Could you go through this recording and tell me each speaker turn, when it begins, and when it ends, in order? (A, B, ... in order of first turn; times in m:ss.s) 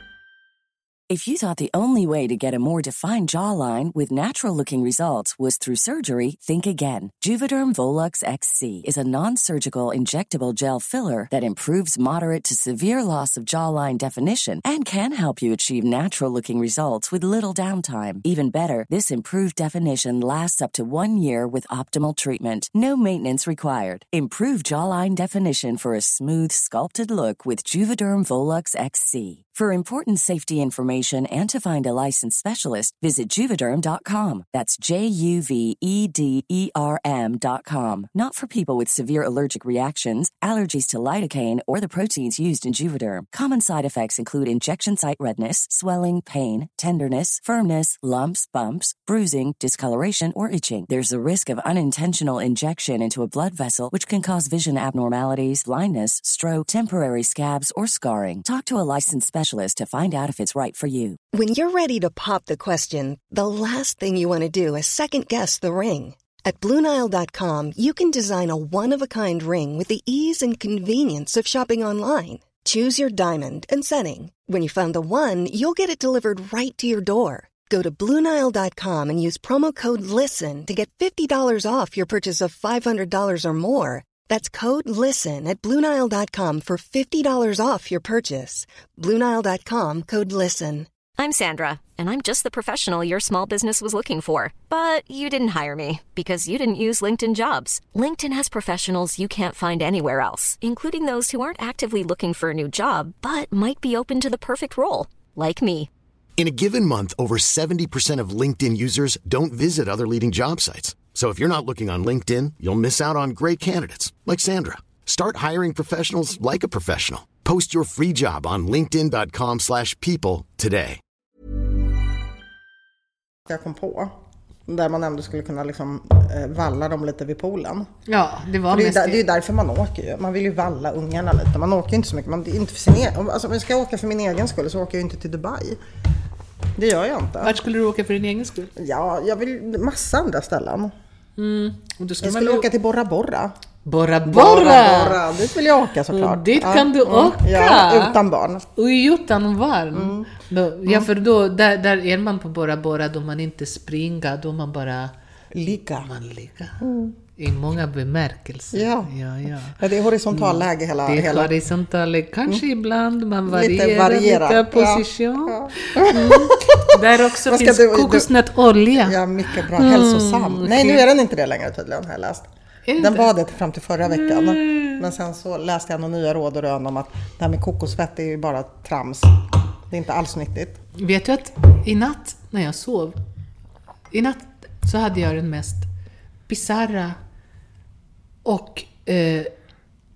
0:01.1-1:01.2 A
1:01.3-1:30.9 B
1:31.2-1:45.9 C
1:46.4-2:01.0 D
2:03.5-2:04.1 E
2:04.7-2:07.9 E
2:08.1-2:09.2 F
2:08.7-2:15.8 E
2:16.8-2:17.6 E
2:17.4-2:18.7 F
2:18.8-2:20.9 E
2:21.4-2:22.7 F
2:22.2-2:23.6 E
2:23.8-2:25.2 F
2:24.3-2:28.6 E
2:26.1-2:28.2 F
2:28.8-2:35.1 F
2:29.9-2:30.3 E
2:35.5-2:36.1 E
2:36.0-2:36.8 F
2:36.8-2:37.2 E
2:37.4-2:39.8 F
2:38.7-2:39.1 E
2:39.7-2:41.5 E
2:40.3-2:51.0 F
2:43.5-2:48.3 E
2:49.0-2:52.5 E
2:52.9-2:53.3 F
2:53.0-3:00.8 E
2:54.1-2:55.0 F
3:01.0-3:03.2 F
3:04.1-3:05.9 F
3:06.5-3:07.2 F
3:08.4-3:09.5 F